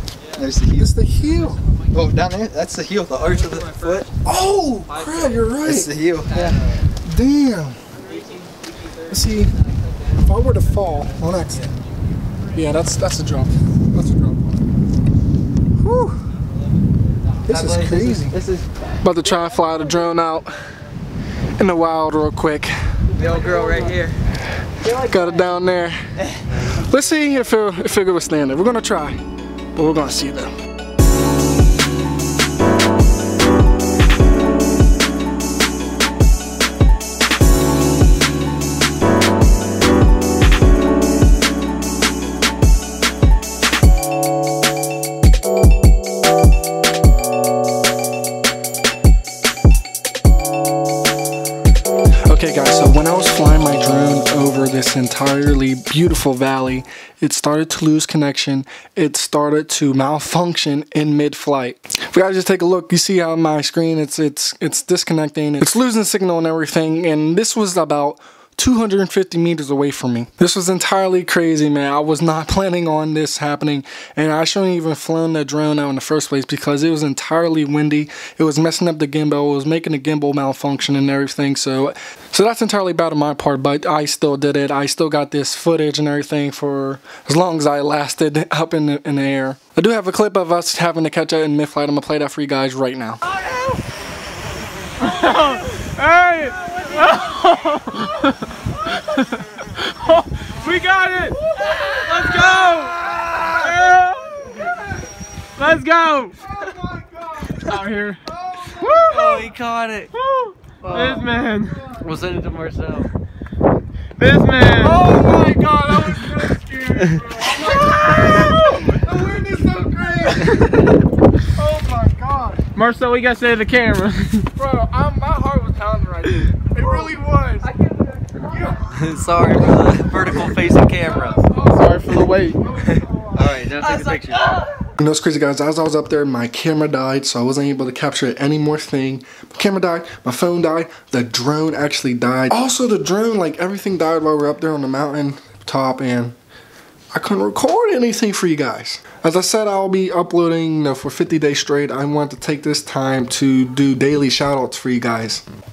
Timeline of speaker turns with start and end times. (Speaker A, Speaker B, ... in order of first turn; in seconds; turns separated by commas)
Speaker A: 0.3-0.9, Speaker B: 0.8-1.6, Speaker C: 1.6-1.9, Speaker A: 1.9-4.1, Speaker C: 3.2-4.1, Speaker B: 4.2-5.9, Speaker C: 4.9-5.4, Speaker A: 5.6-6.6, Speaker C: 6.2-6.9, Speaker B: 7.0-7.8, Speaker C: 8.0-11.9, Speaker B: 9.1-9.5, Speaker B: 10.2-11.8, Speaker B: 12.5-14.6, Speaker B: 15.8-16.2, Speaker C: 16.4-17.4, Speaker B: 17.5-18.4, Speaker A: 17.5-18.7, Speaker D: 19.0-20.8, Speaker B: 19.0-20.6, Speaker B: 21.6-22.8, Speaker D: 23.1-24.0, Speaker A: 23.1-24.2, Speaker D: 24.8-25.6, Speaker B: 25.1-26.0, Speaker B: 26.8-29.2, Speaker B: 29.8-30.5, Speaker B: 52.3-93.2, Speaker D: 95.0-98.5, Speaker D: 99.9-101.4, Speaker D: 101.9-104.7, Speaker B: 102.2-102.5, Speaker D: 105.6-106.4, Speaker B: 106.4-109.4, Speaker D: 107.6-108.2, Speaker D: 108.8-109.5, Speaker C: 109.1-110.1, Speaker D: 110.2-111.9, Speaker C: 110.8-111.2, Speaker C: 112.0-113.1, Speaker D: 114.2-115.0, Speaker B: 114.8-120.8, Speaker D: 118.2-118.8, Speaker B: 121.6-122.7, Speaker D: 122.8-124.5, Speaker B: 124.6-127.7, Speaker B: 128.5-130.8, Speaker C: 128.9-131.4, Speaker B: 131.3-131.7, Speaker D: 131.7-132.6, Speaker C: 132.8-134.7, Speaker A: 133.8-134.6, Speaker B: 135.0-146.4, Speaker B: 147.1-155.4